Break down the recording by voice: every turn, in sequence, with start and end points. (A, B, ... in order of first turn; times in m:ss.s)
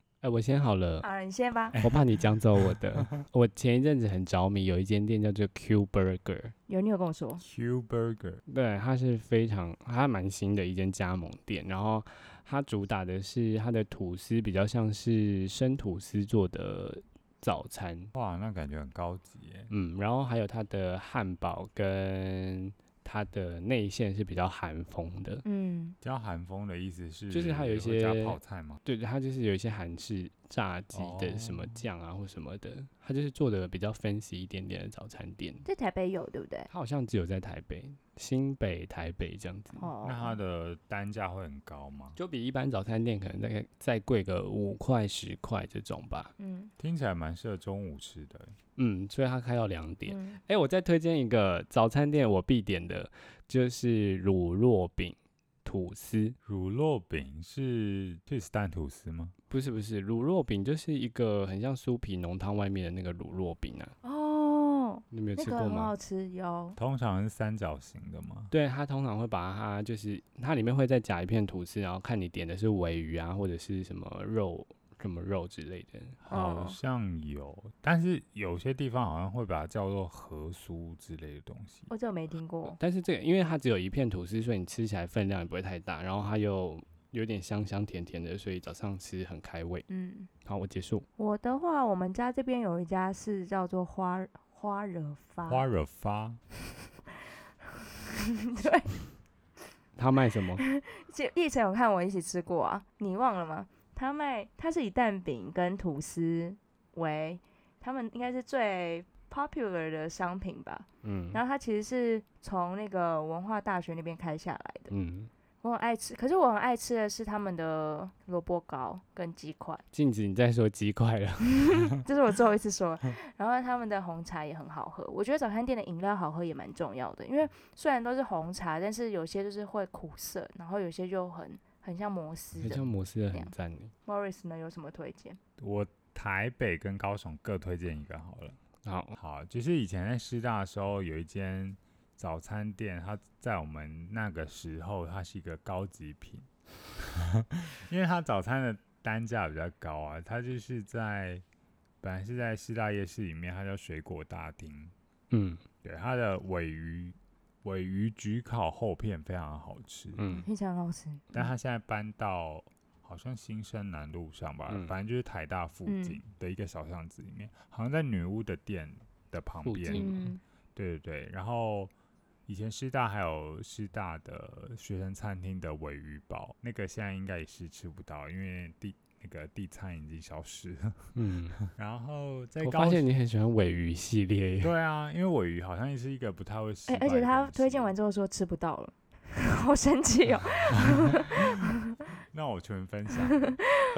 0:00.2-0:01.1 A
0:01.0-0:01.8 B
0:01.7-0:02.1 C
0:01.8-0:06.5 A
0:06.7-0:07.4 B
0:07.4-0:08.4 C
0:08.5-0:18.1 A
0:18.2-0:19.7 C
0:19.7-0:25.4 A
0:25.4-0:26.0 B
0:26.0-0:28.8 C
0:27.3-0:35.6 A
0:30.9-0:31.8 C
0:35.6-0:36.7 B
0:36.7-0:39.9 A
0:39.8-0:40.4 B
0:40.0-0:42.2 C
0:42.2-0:46.3 A
0:46.4-0:46.7 B
0:46.8-0:48.6 C
0:48.8-0:56.4 A
0:50.1-0:50.4 B
0:56.4-0:59.3 C
0:59.5-1:04.0 A
1:04.0-1:06.8 B
1:05.1-1:05.9 A
1:06.8-1:08.5 C
1:08.5-1:16.2 A
1:16.2-1:21.9 C
1:16.3-1:16.8 B
1:21.9-1:22.8 B
1:22.7-1:29.9 A
1:29.9-1:30.3 B
1:30.4-1:31.1 A
1:31.2-1:35.7 B
1:35.5-1:36.4 C
1:38.0-1:39.0 B
1:40.0-1:40.6 A
1:40.6-1:54.9 B
1:51.0-1:51.4 A
1:54.9-1:55.3 A
1:55.6-1:59.8 B
1:59.9-2:01.8 A
2:01.6-2:13.5 B
2:12.6-2:13.9 A
2:14.1-2:15.4 B
2:15.6-2:18.6 C
2:18.8-2:19.2 A
2:19.2-2:31.4 C
2:32.0-2:34.9 C
2:35.3-2:35.6 A
2:35.8-2:40.2 C
2:40.2-2:40.5 A
2:40.3-2:41.5 B
2:41.3-2:50.1 C
2:45.9-2:46.2 B
2:49.6-2:50.3 A
2:49.9-2:50.4 B
2:50.8-2:51.9 C
2:52.5-3:03.1 C
3:01.2-3:01.6 A
3:02.6-3:04.7 A
3:04.6-3:07.9 C
3:06.9-3:11.7 B
3:10.9-3:11.2 C
3:12.3-3:13.6 C
3:13.4-3:13.9 B